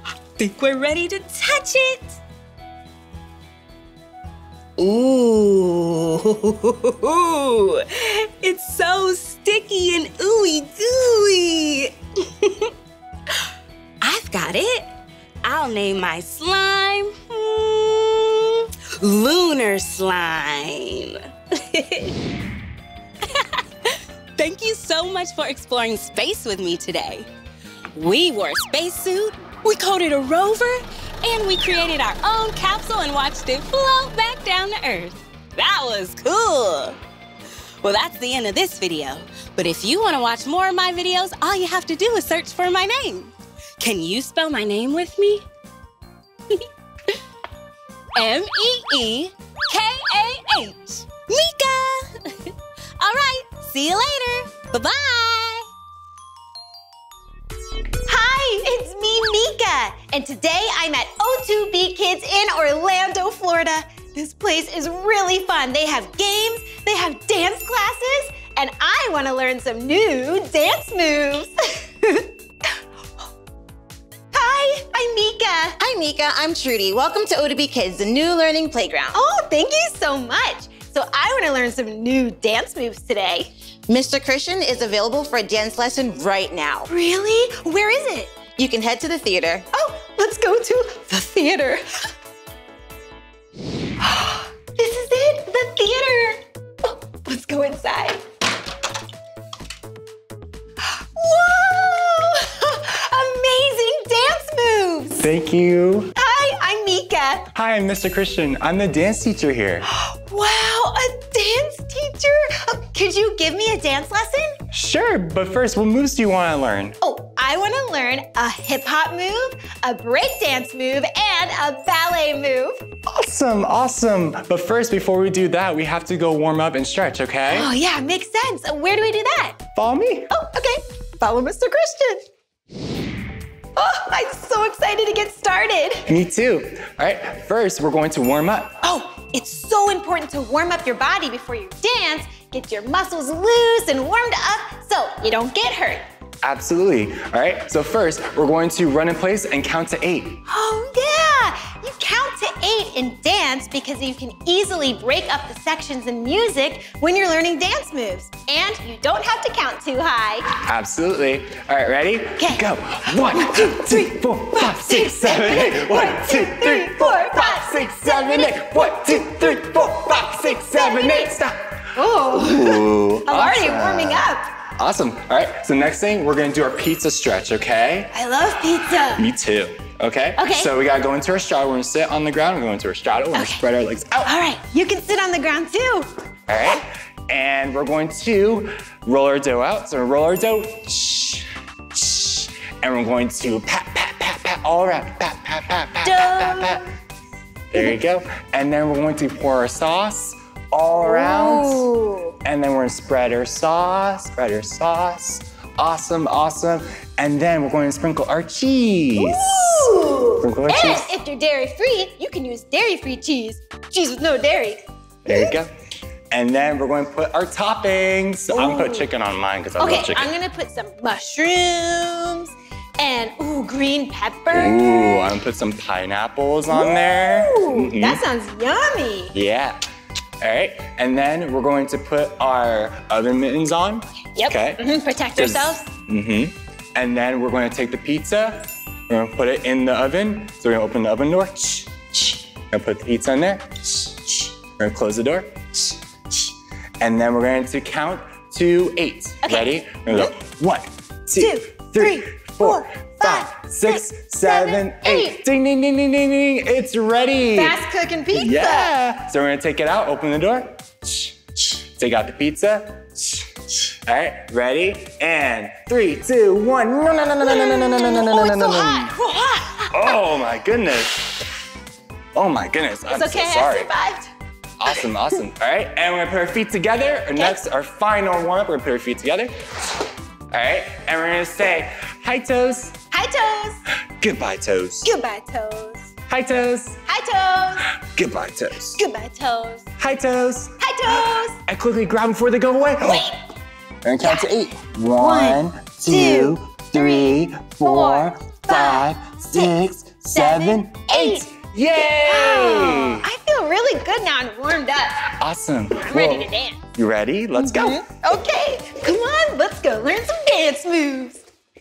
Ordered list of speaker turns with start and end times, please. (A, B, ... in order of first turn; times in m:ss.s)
0:00.4-0:02.2 A
0:04.8-0:12.7 A
0:14.0-0:14.9 A
0:15.4-0:22.2 A
0:23.2-0:27.3 A
0:28.0-0:37.0 A
0:37.8-0:45.4 A
0:46.5-0:47.2 A
0:48.2-0:55.7 A
0:58.1-1:12.3 B
1:14.3-1:15.8 B
1:15.8-1:19.2 C
1:19.1-1:23.5 B
1:23.9-1:26.9 C
1:26.9-1:28.4 B
1:28.5-1:29.7 C
1:29.7-1:31.8 B
1:34.0-1:38.2 B
1:41.0-1:45.3 B
1:45.2-1:46.1 D
1:46.2-1:47.5 B
1:47.6-1:49.8 D
1:49.9-1:54.6 B
1:54.7-1:57.0 D
1:57.0-2:02.8 B
2:03.1-2:07.7 D
2:07.5-2:09.6 B
2:09.8-2:10.3 D
2:10.3-2:12.2 B
2:13.8-2:16.1 B
2:16.1-2:18.8 D
2:18.8-2:26.0 B
2:26.4-2:30.4 D
2:30.5-2:40.5 B
2:40.7-2:51.7 D
2:42.4-2:49.4 B
2:50.4-2:51.4 B
2:52.0-2:54.5 B
2:52.3-2:58.1 D
2:58.1-2:59.3 B
2:59.2-3:04.3 D
3:00.4-3:00.7 B
3:03.3-3:03.6 B
3:04.2-3:06.1 B
3:06.5-3:16.8 D
3:16.0-3:16.8 B
3:17.7-3:21.9 D
3:21.0-3:22.4 B
3:22.4-3:31.1 D
3:29.2-3:35.6 B
3:35.3-3:35.7 D
3:36.3-3:40.3 D
3:38.5-3:39.1 B
3:39.8-3:45.2 B
3:44.5-3:48.2 D
3:46.7-3:49.4 B
3:49.3-3:49.8 D
3:50.4-3:54.8 D
3:54.4-3:55.9 B
3:55.4-4:02.0 D
4:02.6-4:04.1 D
4:04.6-4:05.6 D
4:07.0-4:17.8 D
4:09.4-4:10.4 B
4:11.4-4:15.4 B
4:17.5-4:18.9 B
4:18.3-4:29.2 D
4:27.4-4:30.2 B
4:29.9-4:31.3 D
4:32.3-4:33.9 D
4:33.1-4:34.3 B
4:34.8-4:39.5 D
4:40.5-4:43.0 D
4:43.1-4:43.8 B
4:44.2-4:45.1 D
4:45.0-4:46.1 B
4:46.3-4:47.0 D
4:47.1-4:47.9 B
4:48.0-4:49.0 D
4:49.0-4:49.8 B
4:50.0-4:53.3 D
4:50.8-4:51.6 B
4:53.0-4:53.4 B
4:54.0-5:03.2 D
4:54.2-4:54.6 B
4:55.2-4:59.7 B
5:00.3-5:05.4 B
5:05.4-5:08.0 D
5:06.0-5:06.8 B
5:07.6-5:11.4 B